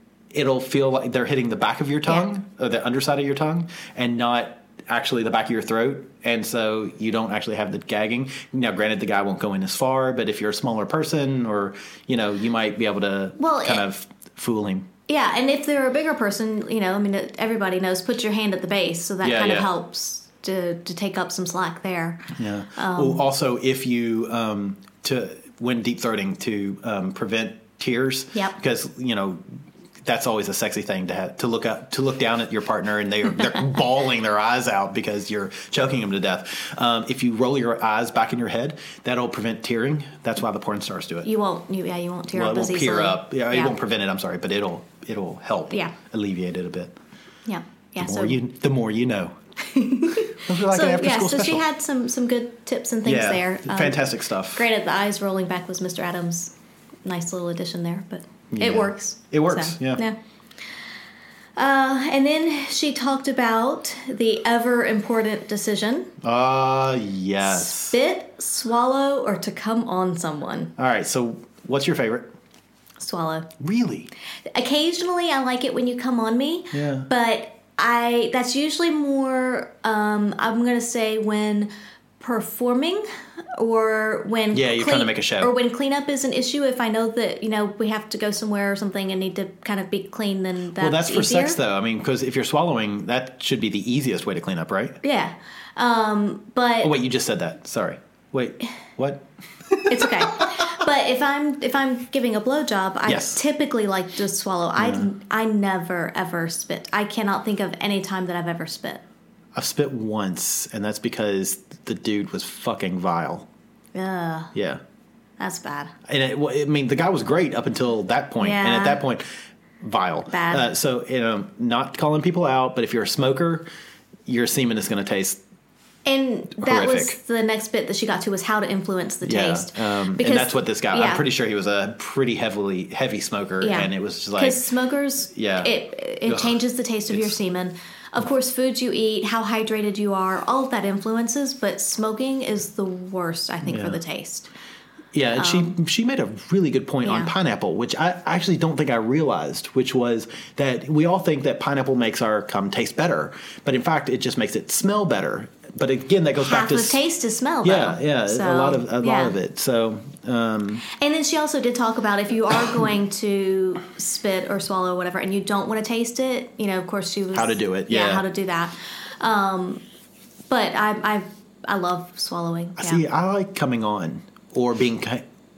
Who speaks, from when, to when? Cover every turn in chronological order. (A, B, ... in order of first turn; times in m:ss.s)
0:00.3-0:14.9 A
0:13.4-0:13.8 B
0:15.1-0:23.2 B
0:19.2-0:19.7 A
0:22.4-0:29.4 A
0:30.0-0:41.3 A
0:41.2-0:43.8 B
0:42.3-0:47.0 A
0:47.5-0:48.4 B
0:48.0-0:49.4 A
0:49.6-0:56.5 B
0:50.3-0:51.6 A
0:53.0-0:54.7 A
0:57.0-1:00.2 B
0:58.5-1:00.0 A
1:01.6-1:06.1 B
1:06.2-1:08.0 A
1:07.4-1:10.7 B
1:10.8-1:12.3 A
1:13.0-1:13.5 B
1:13.6-1:14.1 A
1:14.5-1:23.1 B
1:16.7-1:17.1 A
1:23.6-1:31.6 B
1:24.5-1:25.5 A
1:30.8-1:35.0 A
1:35.0-1:37.0 B
1:36.8-1:40.7 A
1:39.9-1:49.0 B
1:43.1-1:43.4 A
1:44.8-1:45.1 A
1:49.6-1:53.5 A
1:53.9-1:54.5 B
1:54.5-1:54.8 A
1:55.4-1:55.9 B
1:56.1-1:59.3 A
1:58.4-1:59.0 B
1:59.8-2:03.7 A
2:00.3-2:00.7 B
2:04.3-2:05.4 A
2:06.1-2:11.2 B
2:06.6-2:07.2 A
2:09.2-2:14.6 A
2:13.6-2:24.5 B
2:15.3-2:17.4 A
2:23.6-2:24.0 A
2:25.1-2:37.0 A
2:25.4-2:25.7 B
2:27.0-2:27.3 B
2:36.4-2:39.4 B
2:37.6-2:40.8 A
2:40.9-2:49.8 B
2:47.3-2:48.2 A
2:50.5-2:53.0 B
2:52.8-2:55.2 A